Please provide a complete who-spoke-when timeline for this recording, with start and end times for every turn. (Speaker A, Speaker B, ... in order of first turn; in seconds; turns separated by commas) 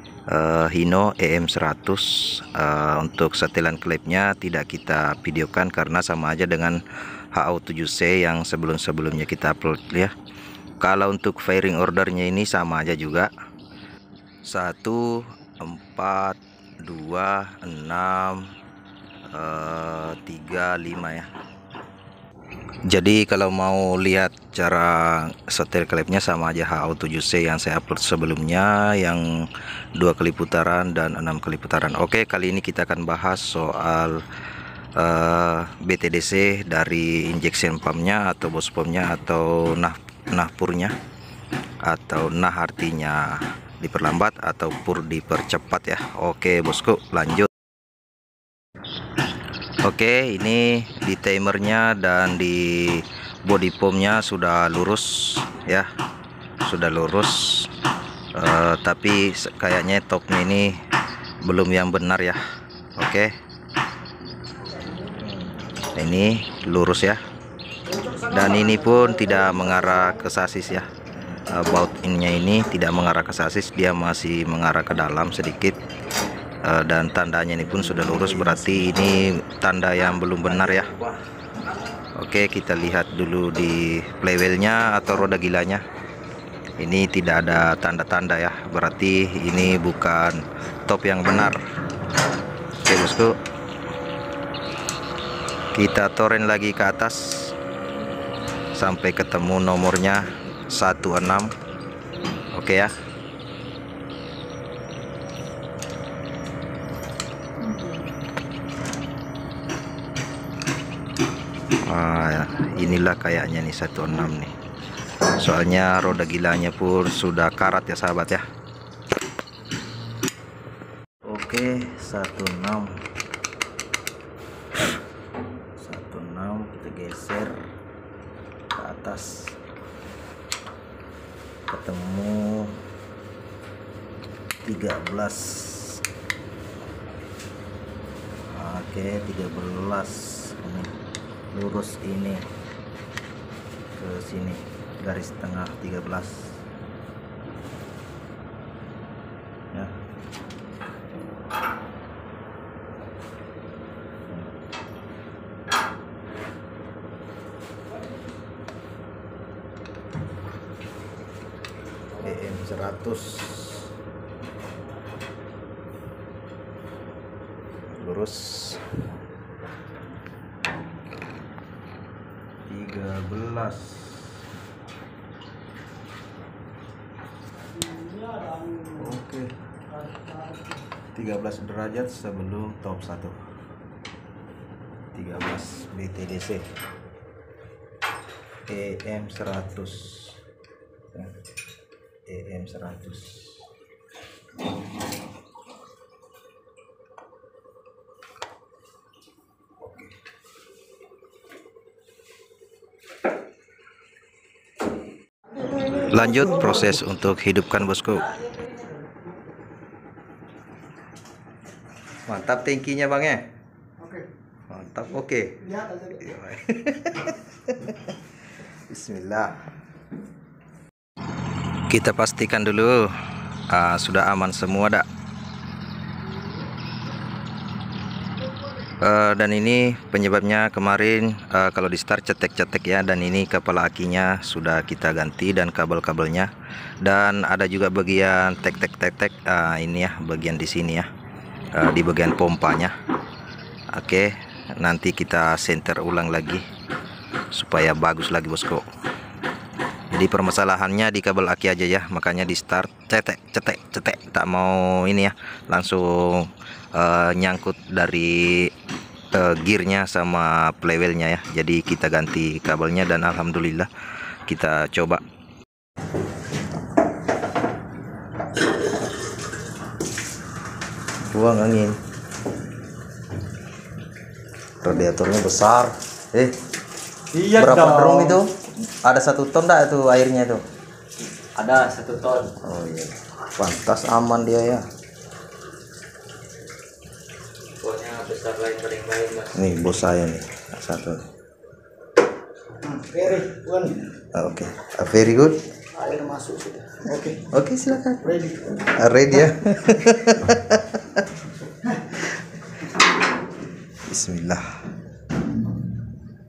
Speaker A: 0.3-6.8, Speaker A: 7.3-10.1, Speaker A: 10.8-13.3, Speaker A: 14.5-18.5, Speaker A: 19.3-21.3, Speaker A: 22.9-29.5, Speaker A: 30.0-34.2, Speaker A: 35.0-41.0, Speaker A: 41.8-47.5, Speaker A: 49.8-55.9, Speaker A: 56.6-57.7, Speaker A: 58.4-60.8, Speaker A: 61.4-62.4, Speaker A: 63.0-63.3, Speaker A: 65.1-67.2, Speaker A: 68.1-75.8, Speaker A: 76.6-81.1, Speaker A: 82.2-85.8, Speaker A: 86.8-91.6, Speaker A: 92.8-93.3, Speaker A: 95.8-97.5, Speaker A: 98.8-101.5, Speaker A: 102.5-102.9, Speaker A: 111.8-114.5, Speaker A: 115.3-118.4, Speaker A: 121.3-123.0, Speaker A: 125.8-127.6, Speaker A: 128.8-129.6, Speaker A: 131.7-132.8, Speaker A: 134.6-136.0, Speaker A: 138.5-140.9, Speaker A: 141.5-142.5, Speaker A: 144.0-146.6, Speaker A: 162.2-163.9, Speaker A: 167.9-168.8, Speaker A: 172.7-174.3, Speaker B: 178.0-178.8, Speaker A: 178.9-179.5, Speaker A: 181.1-183.4, Speaker A: 185.1-186.7, Speaker A: 188.7-190.4, Speaker A: 192.3-193.6, Speaker A: 205.8-208.4, Speaker A: 212.2-213.5, Speaker A: 214.7-218.1, Speaker A: 218.9-219.6, Speaker A: 221.9-223.1, Speaker A: 223.7-225.1, Speaker A: 228.9-236.5, Speaker A: 237.0-241.1, Speaker A: 241.7-242.9, Speaker A: 243.9-246.7, Speaker A: 247.5-248.9, Speaker A: 250.1-258.7, Speaker A: 259.3-263.9, Speaker A: 264.4-265.2, Speaker A: 271.3-272.0, Speaker A: 274.8-276.6, Speaker B: 277.4-278.4, Speaker A: 277.5-280.6, Speaker B: 281.6-282.0, Speaker C: 281.7-282.5, Speaker A: 282.5-284.8, Speaker C: 287.9-289.4, Speaker A: 289.4-291.2, Speaker B: 292.8-294.0, Speaker A: 294.2-295.6, Speaker B: 295.9-297.4, Speaker A: 297.4-301.2, Speaker B: 298.3-298.8, Speaker A: 304.1-304.8